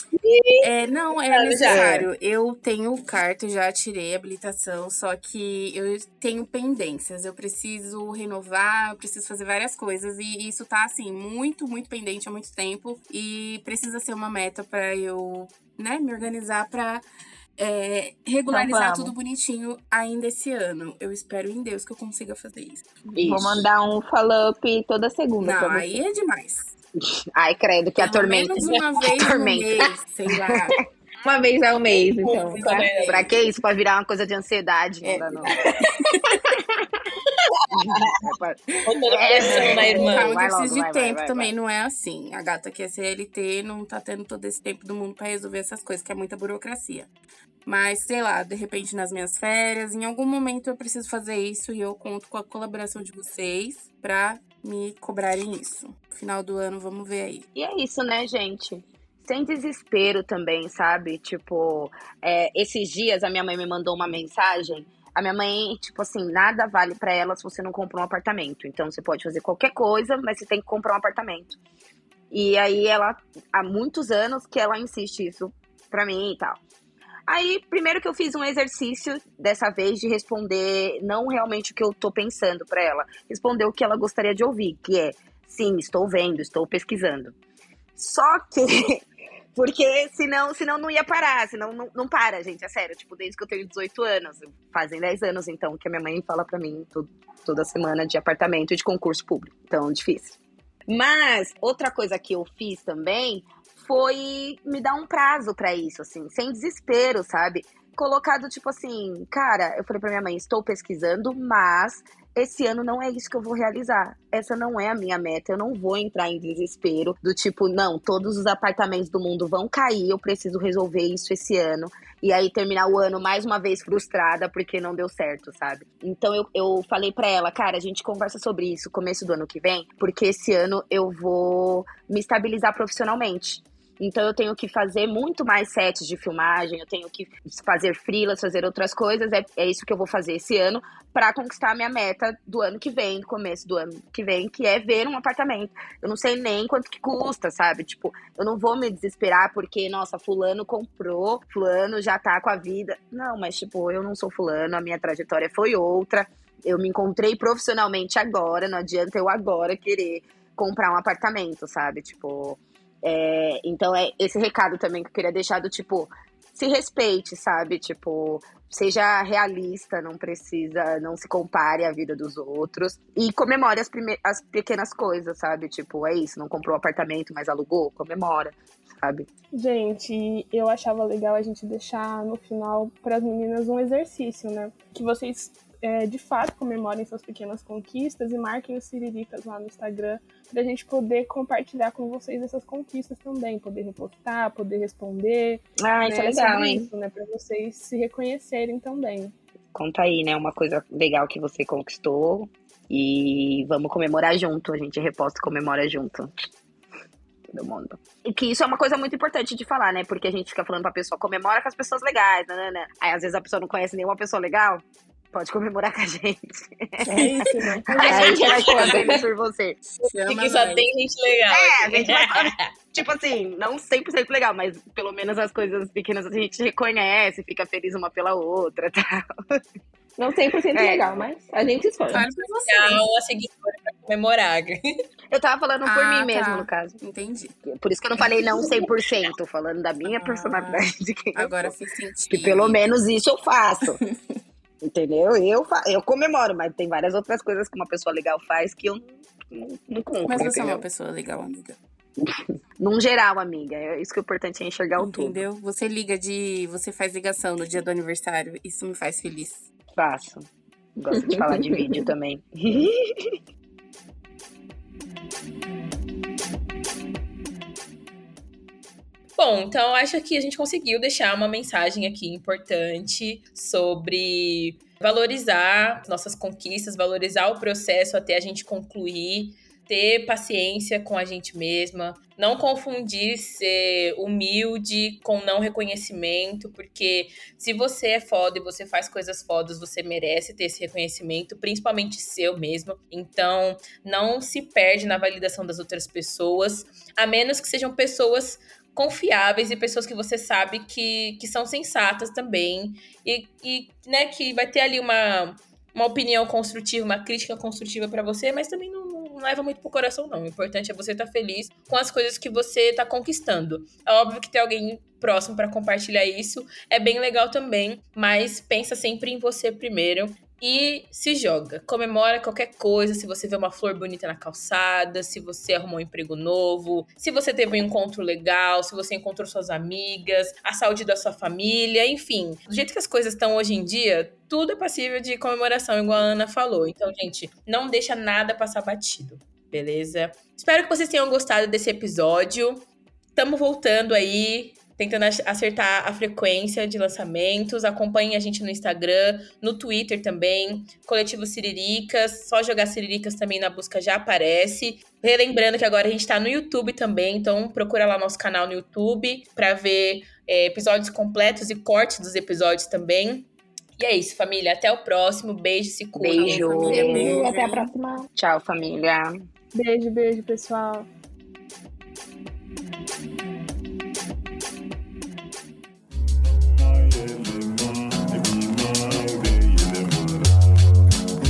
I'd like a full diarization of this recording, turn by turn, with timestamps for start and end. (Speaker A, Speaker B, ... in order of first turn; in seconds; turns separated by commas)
Speaker A: 0.1-0.7, Speaker B: 0.6-17.0, Speaker A: 1.3-1.8, Speaker C: 1.6-2.1, Speaker B: 17.6-22.9, Speaker D: 18.5-19.1, Speaker C: 23.1-23.6, Speaker D: 23.2-25.9, Speaker B: 25.4-26.7, Speaker C: 27.0-30.8, Speaker B: 28.0-30.8, Speaker D: 31.2-32.9, Speaker A: 32.2-33.3, Speaker B: 32.2-33.3, Speaker C: 33.1-35.6, Speaker B: 35.0-36.4, Speaker C: 37.8-41.5, Speaker A: 38.9-40.3, Speaker B: 39.4-47.1, Speaker B: 47.6-57.5, Speaker C: 57.5-71.6, Speaker C: 72.3-76.6, Speaker C: 77.3-87.3, Speaker C: 88.0-89.0, Speaker C: 89.5-100.4, Speaker C: 100.9-179.3, Speaker E: 179.5-199.3, Speaker C: 195.8-196.9, Speaker C: 199.7-206.3, Speaker C: 207.5-217.0, Speaker D: 217.0-219.2, Speaker B: 217.1-219.2, Speaker E: 217.2-218.4, Speaker C: 218.0-219.8, Speaker A: 218.2-218.8, Speaker B: 219.9-220.8, Speaker A: 220.2-222.6, Speaker C: 221.5-229.6, Speaker D: 230.2-232.2, Speaker C: 230.7-231.1, Speaker B: 232.1-233.0, Speaker A: 232.6-234.7, Speaker C: 235.3-237.0, Speaker B: 235.8-237.5, Speaker C: 237.6-241.7, Speaker B: 240.0-242.8, Speaker C: 242.3-244.0, Speaker B: 243.9-244.2, Speaker C: 244.8-250.8, Speaker B: 250.3-251.8, Speaker C: 252.2-255.4, Speaker B: 255.0-259.7, Speaker C: 259.9-263.4, Speaker D: 261.1-262.0, Speaker A: 269.4-367.2, Speaker C: 366.1-369.3, Speaker B: 366.4-367.9, Speaker D: 367.1-367.6, Speaker E: 369.7-371.1